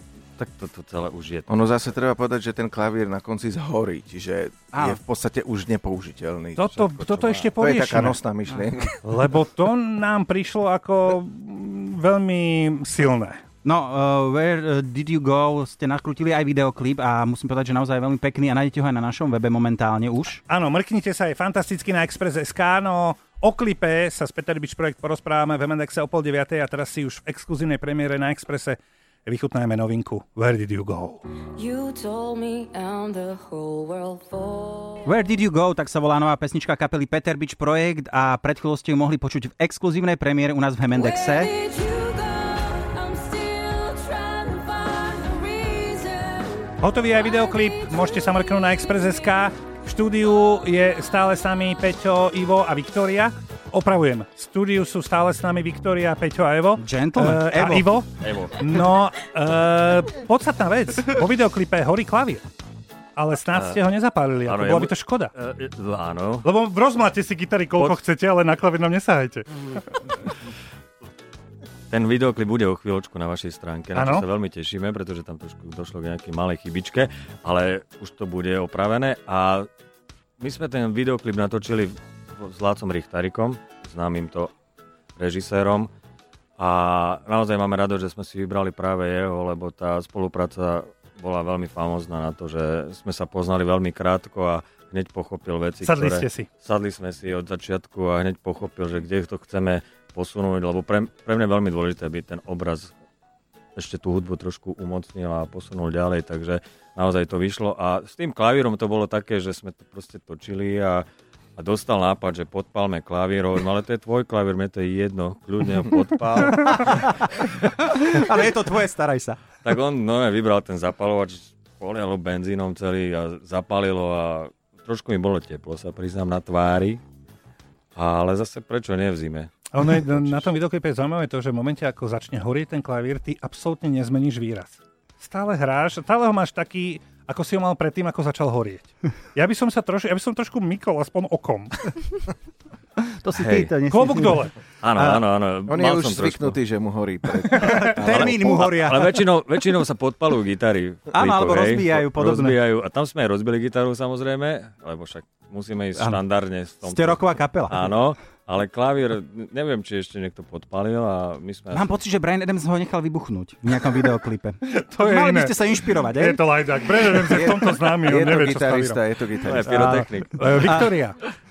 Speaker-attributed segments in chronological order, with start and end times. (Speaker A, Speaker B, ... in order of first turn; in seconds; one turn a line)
Speaker A: 0.4-1.6
Speaker B: 1.5-6.6
Speaker C: 4.7-5.0
Speaker D: 6.6-8.2
Speaker A: 6.7-7.5
Speaker B: 7.6-9.0
Speaker D: 9.0-13.4
Speaker C: 13.6-20.4
Speaker D: 20.5-31.2
Speaker E: 31.6-35.1
Speaker C: 35.0-41.6
Speaker E: 41.0-46.8
Speaker D: 46.8-62.4
Speaker C: 56.8-58.0
Speaker A: 58.2-58.7
Speaker D: 63.2-65.3
Speaker A: 64.5-66.5
Speaker D: 66.4-70.2
Speaker A: 71.9-79.7
Speaker D: 74.0-74.3
Speaker A: 80.4-84.5
Speaker A: 85.2-85.9
Speaker A: 86.6-102.9
Speaker D: 95.8-96.5
Speaker A: 103.8-111.0
Speaker A: 111.6-117.2
Speaker C: 116.7-119.4
Speaker A: 119.6-127.0
Speaker A: 128.0-130.5
Speaker D: 129.7-142.1
Speaker C: 143.2-145.2
Speaker A: 143.3-143.7
Speaker D: 143.9-144.6
Speaker A: 144.8-146.6
Speaker B: 145.7-148.5
Speaker C: 147.5-149.2
Speaker A: 147.6-161.9
Speaker C: 151.1-152.6
Speaker C: 156.8-157.9
Speaker C: 161.7-166.4
Speaker D: 164.6-169.0
Speaker B: 167.3-169.8
Speaker A: 169.4-170.7
Speaker D: 169.8-171.2
Speaker C: 170.6-170.9